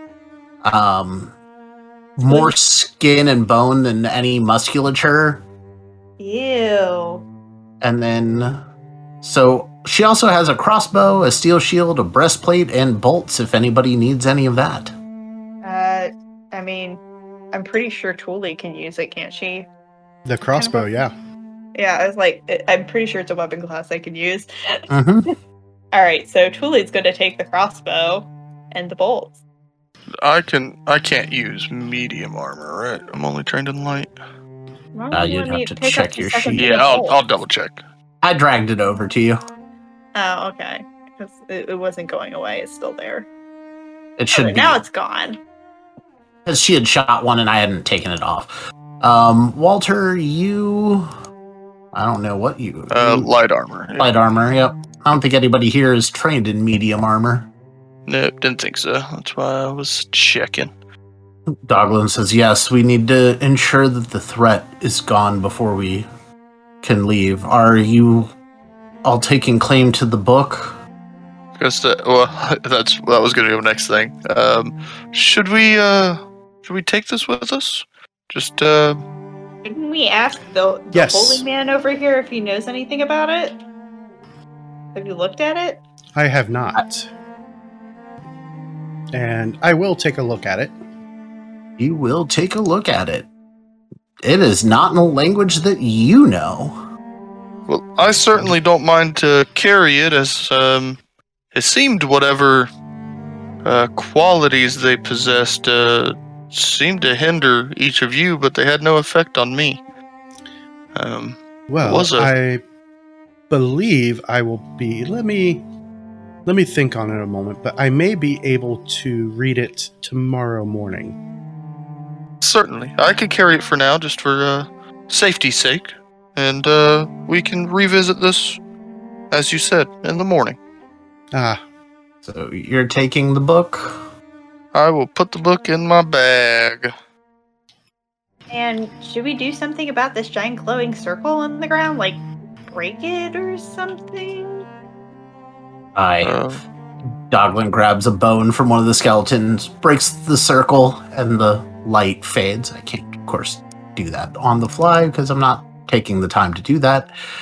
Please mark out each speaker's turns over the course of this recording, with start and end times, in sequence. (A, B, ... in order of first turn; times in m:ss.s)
0:00.6-0:01.3 A
0:02.2-0:05.4 A
0:02.3-0:02.5 B
0:06.2-0:07.2 B
0:07.8-0:08.6 A
0:09.2-0:14.9 A
0:15.6-0:19.7 B
0:20.2-0:21.1 C
0:20.6-0:20.9 B
0:21.7-0:24.8 B
0:24.9-0:25.3 A
0:25.9-0:29.4 B
0:30.2-0:34.1 D
0:34.9-0:37.2 B
0:35.1-0:36.9 A
0:36.5-0:37.8 D
0:38.2-0:39.4 A
0:40.1-0:43.3 B
0:44.2-0:44.8 A
0:44.3-0:45.4 B
0:46.4-0:51.1 A
0:51.9-0:53.3 A
0:52.9-0:54.1 D
0:54.0-0:57.5 A
0:58.1-1:00.7 D
1:01.7-1:06.1 A
1:06.8-1:08.3 A
1:09.0-1:10.8 A
1:11.6-1:19.0 D
1:19.6-1:23.6 B
1:20.9-1:21.4 C
1:24.9-1:25.8 B
1:26.1-1:27.1 C
1:29.1-1:30.7 C
1:31.8-1:33.3 A
1:34.2-1:36.8 A
1:37.7-1:41.0 D
1:41.5-1:42.7 D
1:43.6-1:49.8 D
1:50.9-1:52.3 D
1:51.7-1:52.6 C
1:53.5-1:55.6 C
1:56.4-2:01.2 C
2:02.4-2:08.6 D
2:09.3-2:10.6 D
2:11.3-2:11.6 C
2:12.2-2:14.0 A
2:14.7-2:16.9 D
2:18.5-2:24.6 B
2:26.0-2:26.4 A
2:26.2-2:26.6 D
2:27.3-2:37.1 A